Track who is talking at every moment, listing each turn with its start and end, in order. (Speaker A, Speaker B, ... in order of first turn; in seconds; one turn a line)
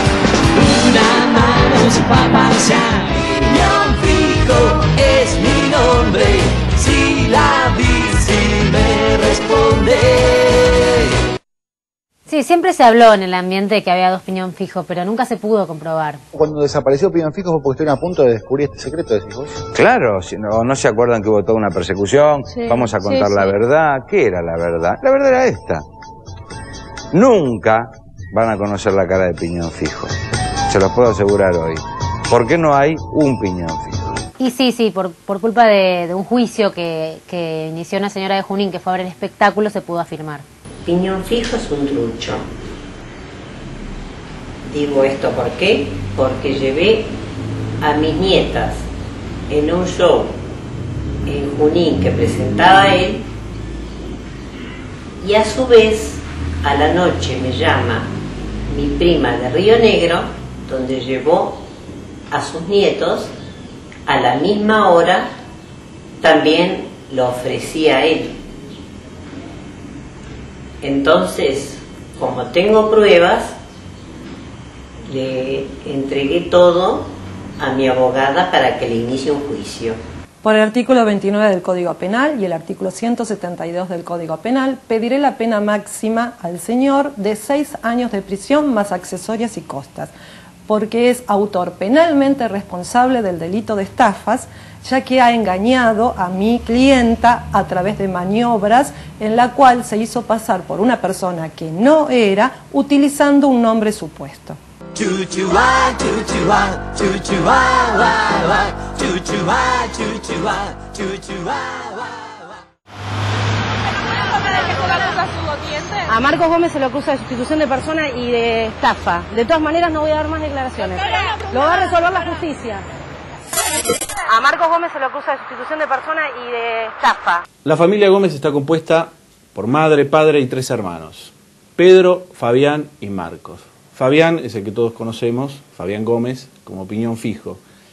Speaker A: 0.6-10.5
Speaker B: 12.3-16.2
Speaker C: 16.3-19.5
Speaker D: 19.7-25.8
Speaker D: 27.1-30.1
Speaker D: 30.7-34.0
Speaker B: 34.4-40.4
Speaker E: 40.9-42.4
Speaker E: 44.6-47.1
Speaker E: 47.8-48.8
Speaker E: 49.5-50.3
Speaker E: 51.3-53.2
Speaker E: 55.2-58.1
Speaker E: 58.7-61.6
Speaker E: 62.3-63.3
Speaker E: 64.1-65.2
Speaker E: 66.2-68.3
Speaker E: 70.8-73.5
Speaker E: 75.1-80.0
Speaker F: 80.4-80.9
Speaker F: 81.5-90.1
Speaker F: 90.7-104.6
Speaker A: 105.0-111.0
Speaker G: 116.1-122.8
Speaker G: 124.3-127.4
Speaker H: 127.6-137.6